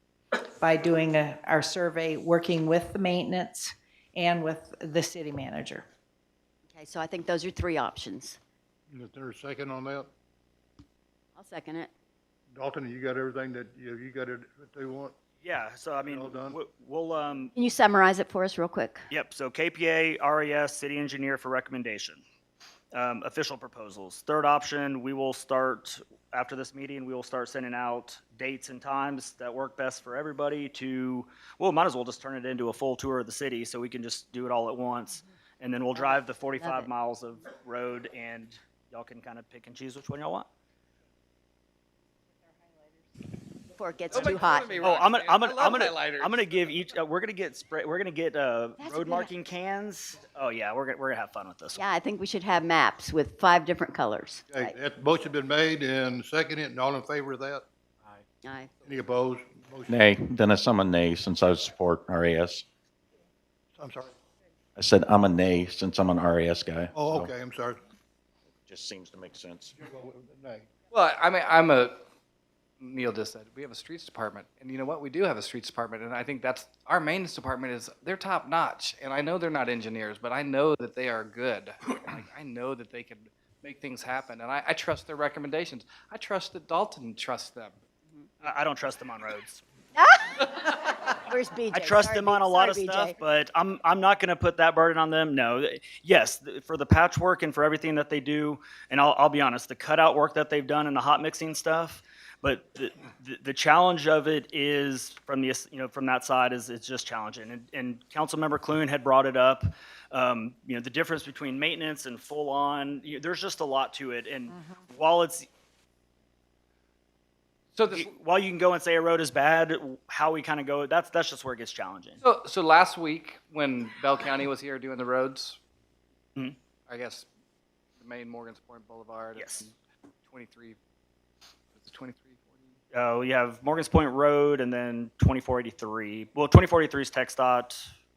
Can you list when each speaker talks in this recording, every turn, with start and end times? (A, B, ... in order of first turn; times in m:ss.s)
0:00.6-0:05.8 A
0:06.7-0:08.4 B
0:08.9-0:10.1 C
0:11.4-0:11.9 B
0:12.5-0:15.1 C
0:15.4-0:17.5 D
0:16.0-0:16.6 C
0:17.6-0:19.1 B
0:19.1-0:22.2 D
0:22.9-0:40.5 D
0:36.0-0:36.9 B
0:43.7-0:44.8 B
0:44.1-0:46.7 E
0:44.8-0:51.8 D
0:48.8-0:49.3 B
0:51.7-0:54.7 B
0:54.5-0:57.6 C
0:58.4-0:58.7 B
0:58.8-1:00.2 C
0:59.9-1:02.6 F
1:03.8-1:04.2 C
1:04.8-1:07.3 F
1:06.9-1:07.8 C
1:08.6-1:09.7 F
1:09.8-1:10.7 C
1:10.9-1:12.0 E
1:12.8-1:27.7 E
1:28.4-1:29.6 D
1:29.9-1:33.2 B
1:31.7-1:55.5 D
1:54.5-1:54.8 A
1:57.7-1:58.1 E
1:57.9-2:02.2 D
2:02.2-2:05.6 E
2:06.9-2:07.2 E
2:08.0-2:09.7 E
2:09.4-2:09.7 D
2:10.3-2:10.8 E
2:11.7-2:12.7 E
2:12.9-2:17.9 D